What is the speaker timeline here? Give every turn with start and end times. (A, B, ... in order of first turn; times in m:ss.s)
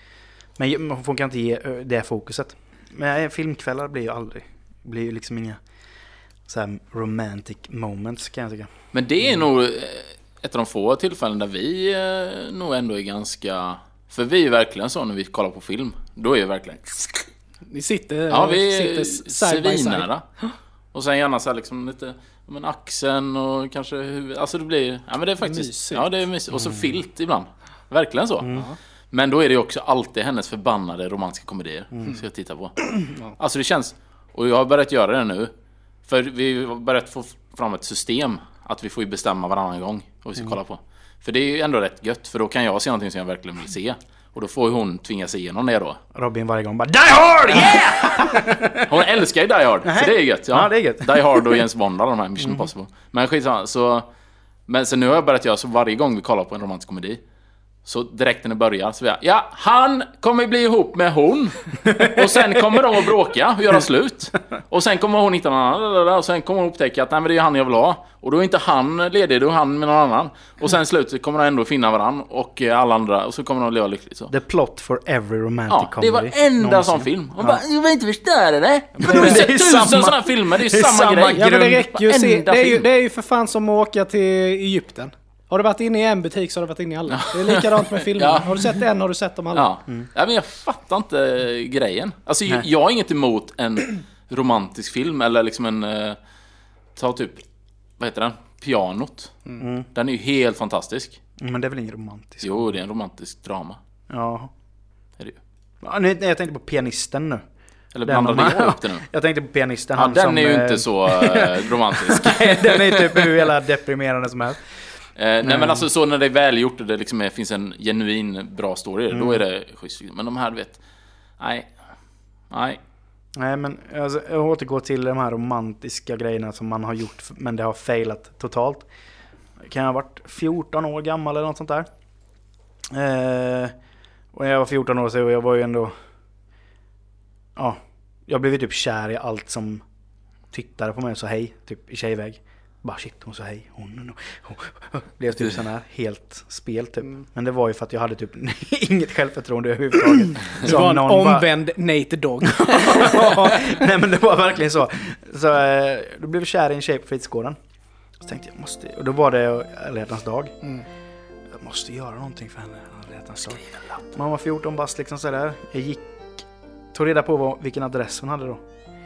0:00.6-0:05.6 A
0:06.5-0:08.7 A
0:08.9-0:17.3 B
0:17.7-0:20.5 C
0:18.3-0:20.2 B
0:20.9-0:35.5 B
0:25.4-0:26.1 C
0:36.1-0:46.0 B
0:46.1-0:49.0 A
0:47.5-0:54.1 B
0:49.8-0:51.7 A
0:54.7-0:57.2 B
0:57.8-1:14.3 B
1:14.3-1:17.6 A
1:15.7-1:22.9 B
1:19.0-1:19.4 C
1:19.0-1:21.9 A
1:21.3-1:29.7 C
1:27.1-1:28.7 B
1:29.5-1:36.2 B
1:37.0-1:37.4 B
1:38.0-1:39.4 B
1:39.6-1:39.9 A
1:39.9-1:41.2 B
1:41.4-1:42.7 A
1:42.4-1:43.8 B
1:44.1-1:44.5 A
1:45.8-1:47.4 A
1:47.9-1:49.0 B
1:48.0-1:54.6 A
1:50.0-1:53.5 B
1:55.2-2:00.8 B
1:55.4-1:55.9 A
1:59.1-1:59.4 A
2:01.4-2:01.7 B
2:02.5-2:02.8 B
2:03.4-2:08.9 A
2:09.6-2:11.9 A
2:12.9-2:13.8 A
2:14.3-2:16.0 A
2:17.6-2:19.8 A
2:20.5-2:31.5 A
2:30.6-2:33.8 C
2:32.6-2:37.6 A
2:38.2-2:40.6 A
2:41.5-2:46.1 A
2:46.9-2:48.6 A